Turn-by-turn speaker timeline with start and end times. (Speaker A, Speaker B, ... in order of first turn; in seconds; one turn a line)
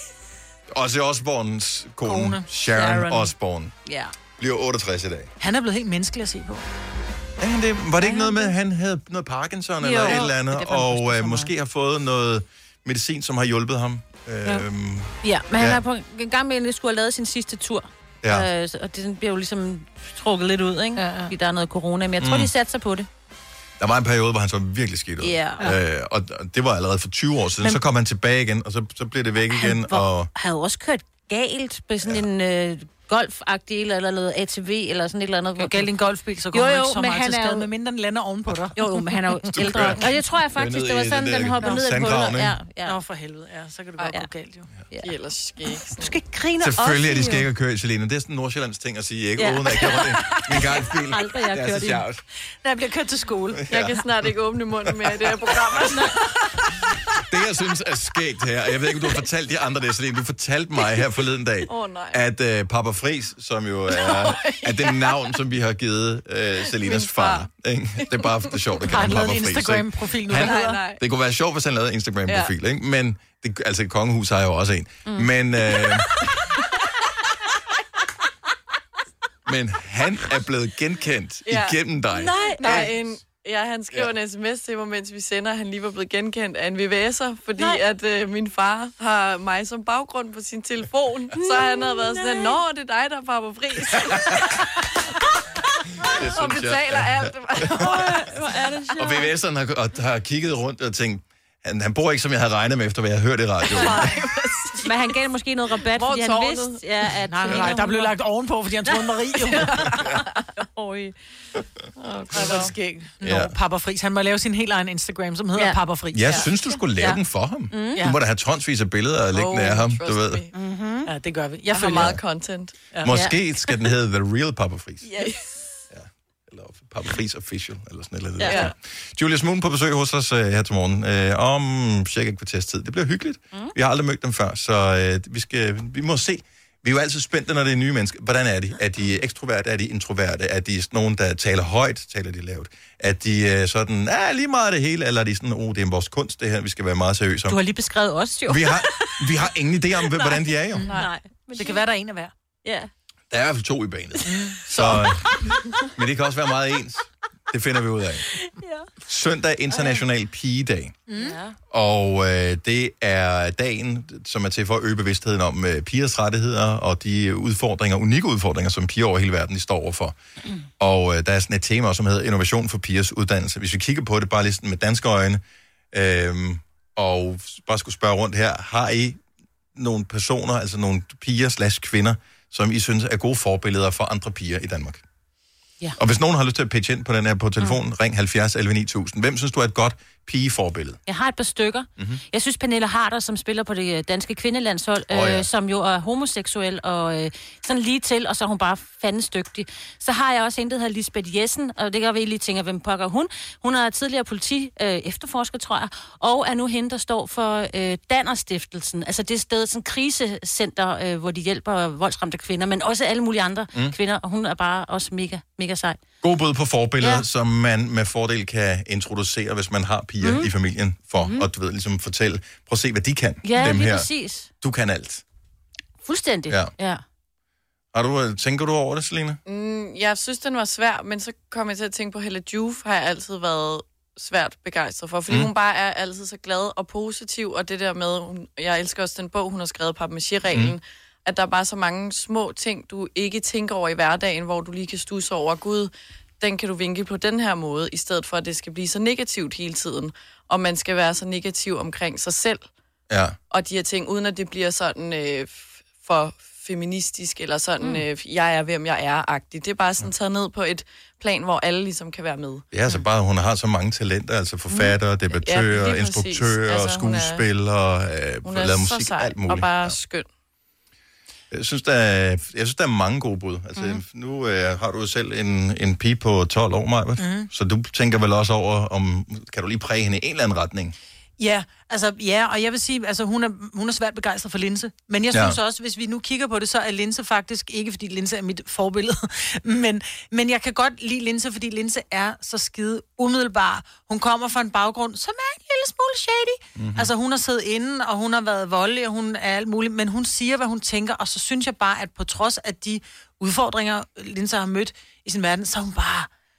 Speaker A: 0.7-3.7
Speaker B: 2.0-2.4
Speaker C: 2.7-3.3
Speaker C: 3.9-4.1
Speaker A: 4.4-5.3
Speaker B: 5.4-6.7
Speaker A: 7.4-15.8
Speaker C: 8.0-8.5
Speaker C: 9.8-11.5
Speaker C: 15.2-23.1
Speaker A: 18.2-18.5
Speaker B: 21.0-21.3
Speaker A: 22.2-22.5
Speaker A: 23.8-30.3
Speaker C: 25.2-25.7
Speaker C: 29.5-35.9
Speaker B: 35.6-39.1
Speaker C: 36.5-37.7
Speaker C: 38.8-43.0
Speaker A: 39.5-42.5
Speaker B: 42.9-44.7
Speaker D: 45.0-46.2
Speaker C: 46.0-47.5
Speaker A: 46.6-52.2
Speaker C: 49.4-52.0
Speaker B: 50.3-50.6
Speaker B: 52.6-53.6
Speaker A: 53.6-54.0
Speaker D: 53.7-56.2
Speaker A: 57.3-76.1
Speaker D: 61.7-62.2
Speaker D: 63.9-65.4
Speaker D: 66.7-67.5
Speaker B: 68.9-70.8
Speaker D: 70.3-71.0
Speaker D: 72.3-72.5
Speaker A: 79.5-83.0
Speaker D: 81.5-94.7
Speaker C: 82.1-82.9
Speaker C: 87.6-87.8
Speaker C: 91.4-92.6
Speaker A: 94.1-94.4
Speaker A: 96.0-98.2
Speaker D: 96.2-98.7
Speaker C: 97.7-99.3
Speaker A: 99.0-104.1
Speaker D: 103.7-105.2
Speaker C: 104.8-108.1
Speaker D: 105.8-107.7
Speaker B: 107.3-109.8
Speaker D: 109.5-110.3
Speaker C: 110.8-111.1
Speaker D: 112.0-112.7
Speaker B: 112.3-116.5
Speaker A: 113.2-113.5
Speaker C: 115.5-115.8
Speaker A: 116.1-120.4
Speaker C: 117.7-118.1
Speaker D: 119.3-120.5
Speaker C: 120.5-121.1
Speaker B: 121.0-122.2
Speaker D: 121.7-122.7
Speaker A: 123.0-125.1
Speaker C: 123.0-123.4
Speaker D: 125.1-125.5
Speaker A: 125.9-147.6
Speaker C: 128.4-128.7
Speaker D: 128.5-128.7
Speaker C: 147.5-149.5
Speaker A: 148.5-150.9
Speaker C: 150.1-151.8
Speaker B: 150.8-152.3
Speaker C: 152.6-152.9
Speaker A: 153.3-158.3
Speaker B: 154.3-154.7
Speaker C: 158.3-158.9
Speaker A: 159.1-161.0
Speaker C: 159.8-160.0
Speaker B: 161.1-161.4
Speaker C: 161.2-161.6
Speaker A: 161.7-170.2
Speaker A: 170.8-175.4
Speaker A: 175.9-179.2
Speaker A: 179.8-185.0
Speaker A: 186.0-191.0
Speaker C: 191.1-216.0
Speaker A: 195.1-195.5
Speaker A: 216.2-225.2
Speaker C: 217.0-217.3
Speaker C: 220.2-220.5
Speaker C: 221.2-221.5
Speaker C: 223.4-224.5
Speaker C: 226.0-227.0
Speaker A: 227.9-229.4
Speaker D: 229.5-252.7
Speaker A: 253.1-253.4
Speaker D: 253.5-262.6
Speaker A: 262.7-270.0
Speaker D: 264.8-267.4
Speaker D: 268.4-270.3
Speaker A: 271.5-280.9
Speaker C: 273.8-274.0
Speaker B: 277.2-277.5
Speaker B: 281.4-306.3
Speaker A: 285.3-285.6
Speaker A: 296.8-297.1